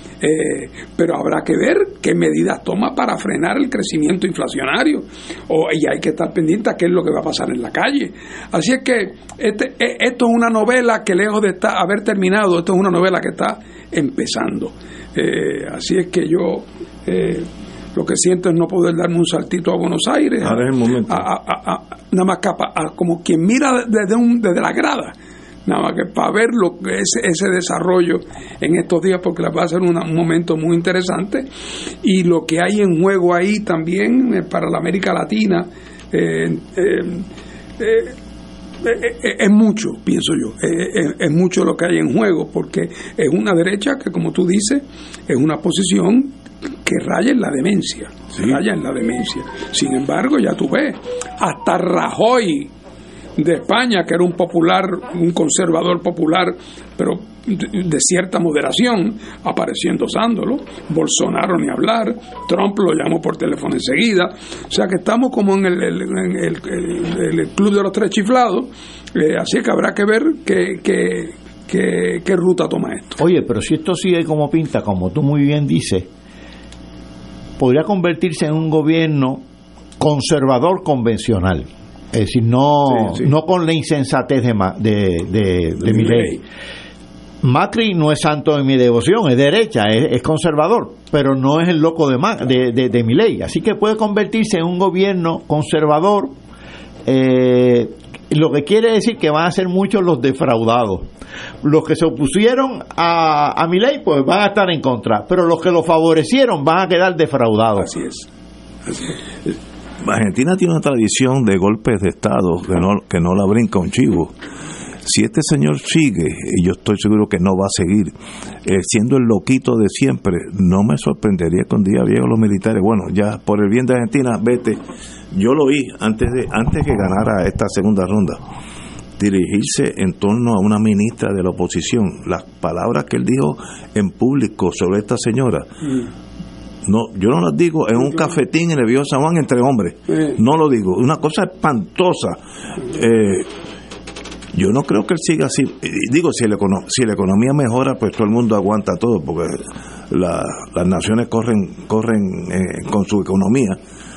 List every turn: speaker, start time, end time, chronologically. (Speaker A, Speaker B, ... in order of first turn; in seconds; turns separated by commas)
Speaker A: 0.2-31.5, Speaker B: 20.4-21.3, Speaker A: 32.0-37.3, Speaker A: 37.8-38.1, Speaker A: 38.8-46.3, Speaker A: 46.9-52.7, Speaker A: 53.4-73.2, Speaker C: 73.2-76.1, Speaker C: 77.6-79.4, Speaker C: 80.0-86.4, Speaker B: 83.0-83.3, Speaker A: 86.0-86.4, Speaker C: 87.4-96.3, Speaker C: 97.0-101.1, Speaker C: 101.6-107.9, Speaker A: 107.8-108.3, Speaker A: 108.9-109.2, Speaker B: 110.0-114.3, Speaker B: 115.0-118.1, Speaker B: 118.7-124.8, Speaker B: 125.3-128.4, Speaker B: 129.2-135.7, Speaker B: 136.8-143.5, Speaker A: 140.1-140.4, Speaker B: 144.5-153.8